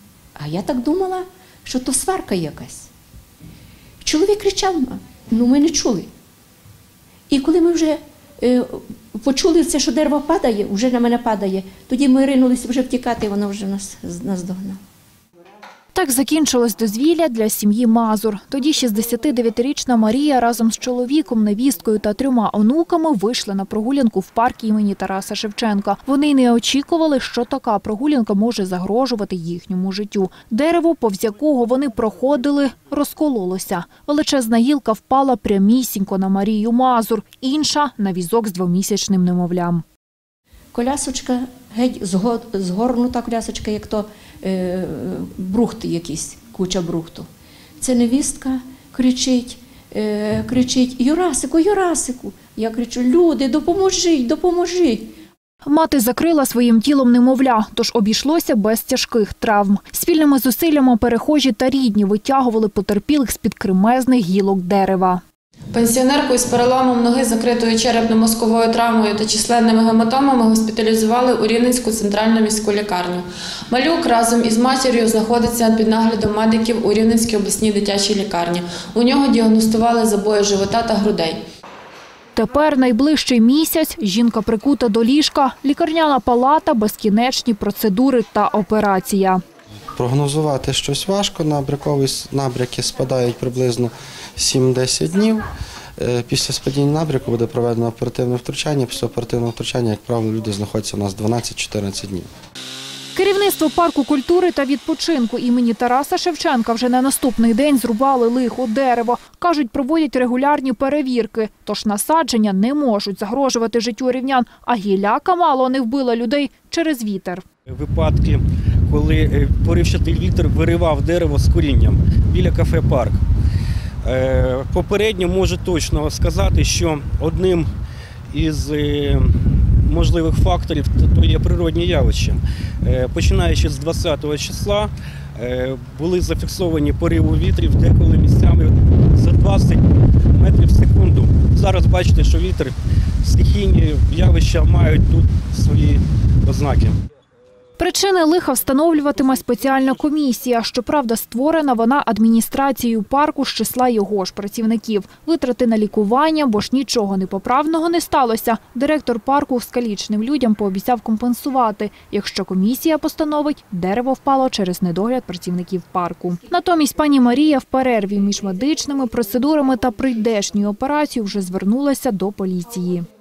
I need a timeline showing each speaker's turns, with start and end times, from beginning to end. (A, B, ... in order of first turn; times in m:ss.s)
0:00.4-0:02.9 A
0:04.0-0:06.1 A
0:07.3-0:14.8 A
0:15.9-0:39.8 B
0:40.7-0:47.3 A
0:47.8-0:55.1 A
0:55.6-1:05.2 B
1:05.7-1:21.4 C
1:22.4-1:29.4 B
1:30.0-1:35.5 D
1:36.0-1:42.3 D
1:43.2-1:57.4 B
1:57.7-2:03.2 E
2:04.0-2:07.7 E
2:08.3-2:09.3 E
2:09.8-2:19.8 E
2:20.4-2:27.0 E
2:27.8-2:53.1 B